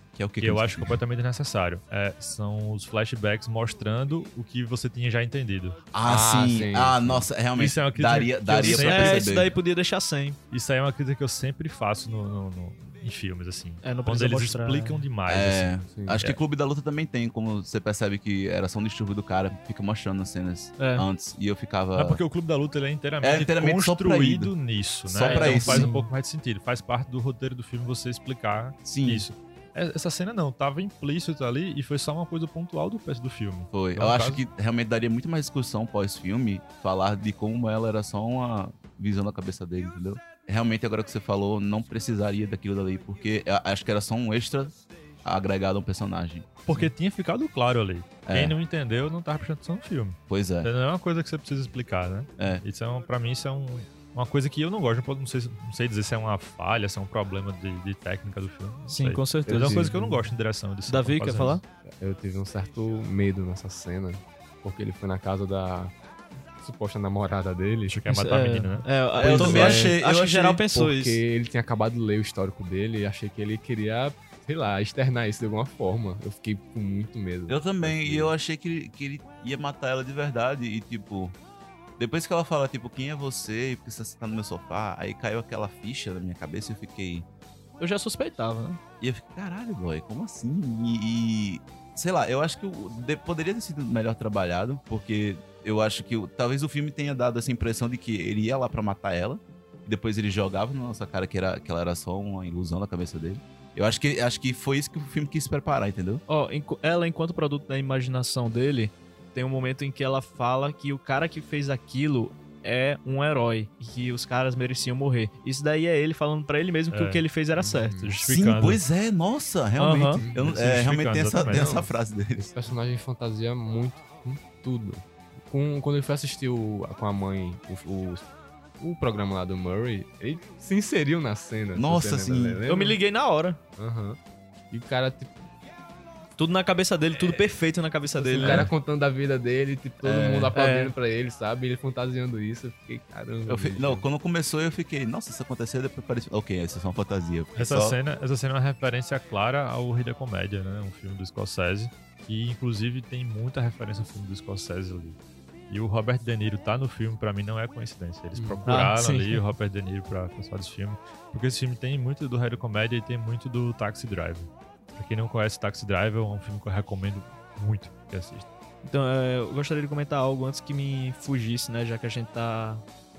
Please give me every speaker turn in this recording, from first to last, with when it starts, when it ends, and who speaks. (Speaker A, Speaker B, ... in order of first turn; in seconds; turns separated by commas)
Speaker A: 0.1-1.0, Speaker B: 0.4-5.8, Speaker A: 5.9-9.6, Speaker C: 6.0-7.3, Speaker B: 7.5-9.3, Speaker D: 8.6-10.4, Speaker B: 10.5-16.4, Speaker D: 13.8-15.1, Speaker A: 15.3-22.2, Speaker C: 15.9-16.2, Speaker D: 20.8-21.1, Speaker B: 21.9-34.4, Speaker A: 23.2-24.5, Speaker A: 25.1-25.9, Speaker D: 25.3-26.0, Speaker C: 25.3-26.1, Speaker A: 28.9-29.3, Speaker A: 33.7-46.9, Speaker B: 46.6-61.6, Speaker A: 48.3-48.6, Speaker A: 50.3-50.7, Speaker A: 52.4-52.6, Speaker D: 58.9-59.9, Speaker C: 59.5-60.3, Speaker D: 60.9-61.6, Speaker C: 61.8-66.0, Speaker C: 66.6-68.0, Speaker B: 67.9-68.9, Speaker D: 68.1-71.2, Speaker A: 69.1-70.6, Speaker C: 69.3-69.9, Speaker C: 70.7-78.3, Speaker A: 77.5-81.3, Speaker A: 82.0-87.3, Speaker D: 87.8-88.8, Speaker A: 89.0-106.2, Speaker D: 106.3-118.1, Speaker B: 116.9-117.2, Speaker C: 117.6-118.2, Speaker B: 118.0-118.8, Speaker A: 118.2-122.4, Speaker D: 119.8-120.2, Speaker C: 120.2-120.5, Speaker B: 120.4-121.7, Speaker C: 121.5-128.3, Speaker C: 128.8-133.0, Speaker A: 131.7-132.6, Speaker D: 132.7-133.6, Speaker C: 133.8-134.2, Speaker C: 134.7-135.4, Speaker D: 136.4-138.7, Speaker C: 138.2-144.1, Speaker B: 138.4-138.7, Speaker A: 140.0-140.5, Speaker D: 140.5-140.9, Speaker A: 143.5-147.9, Speaker B: 147.6-155.2, Speaker B: 155.7-168.5, Speaker C: 158.4-158.7, Speaker D: 158.7-159.4, Speaker D: 168.8-172.8